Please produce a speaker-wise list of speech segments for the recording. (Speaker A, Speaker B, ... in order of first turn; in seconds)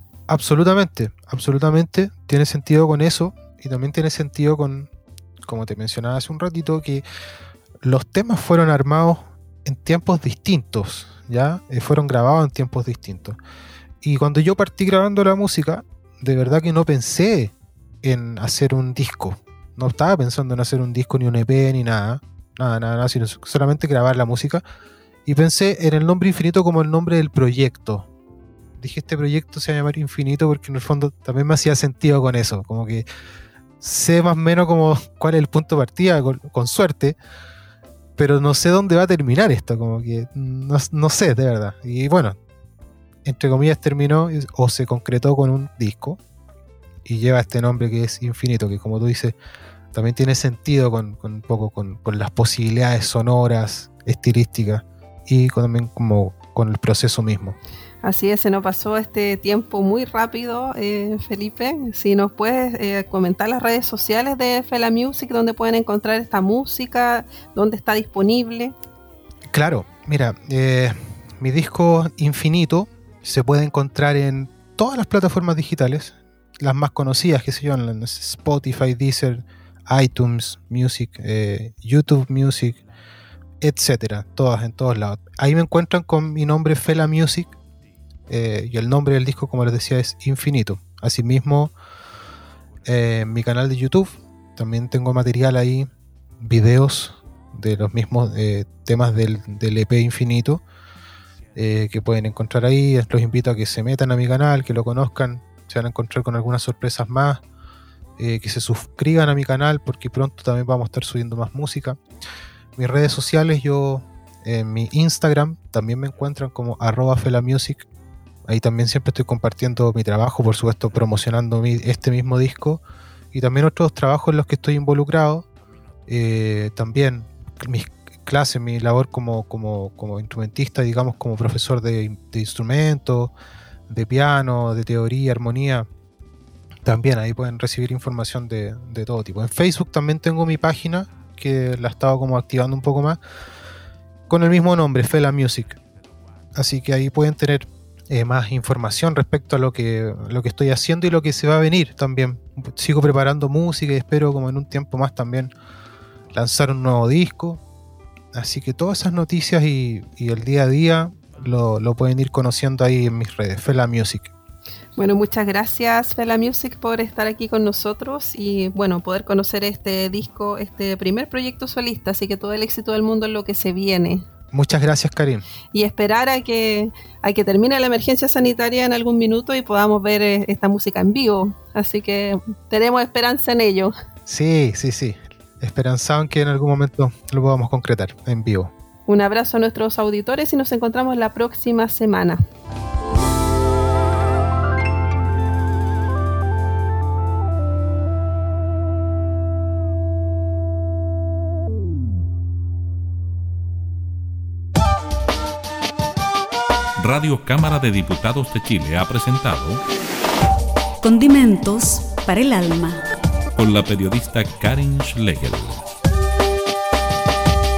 Speaker A: 0.3-4.9, 5.4-7.0, 7.8-13.4, 14.0-24.6, 25.2-28.1, 28.8-33.0, 33.8-37.2, 38.2-42.4, 43.2-46.2, 47.0-49.4, 49.9-57.6, 69.5-82.8, 83.6-87.5, 88.3-91.7, 92.8-100.6, 101.5-107.4, 108.2-112.0, 112.8-117.8, 118.5-122.8, 123.3-125.5, 126.1-133.3, 133.9-135.9, 136.8-143.2, 144.3-145.8, 146.5-155.5, 156.3-157.6, 158.3-164.3, 174.5-175.4, 184.3-188.7
Speaker B: 58.0-68.7, 165.0-174.2, 175.7-183.9, 189.1-192.4
Speaker C: 207.0-209.8, 213.6-215.8
Speaker D: 211.0-213.0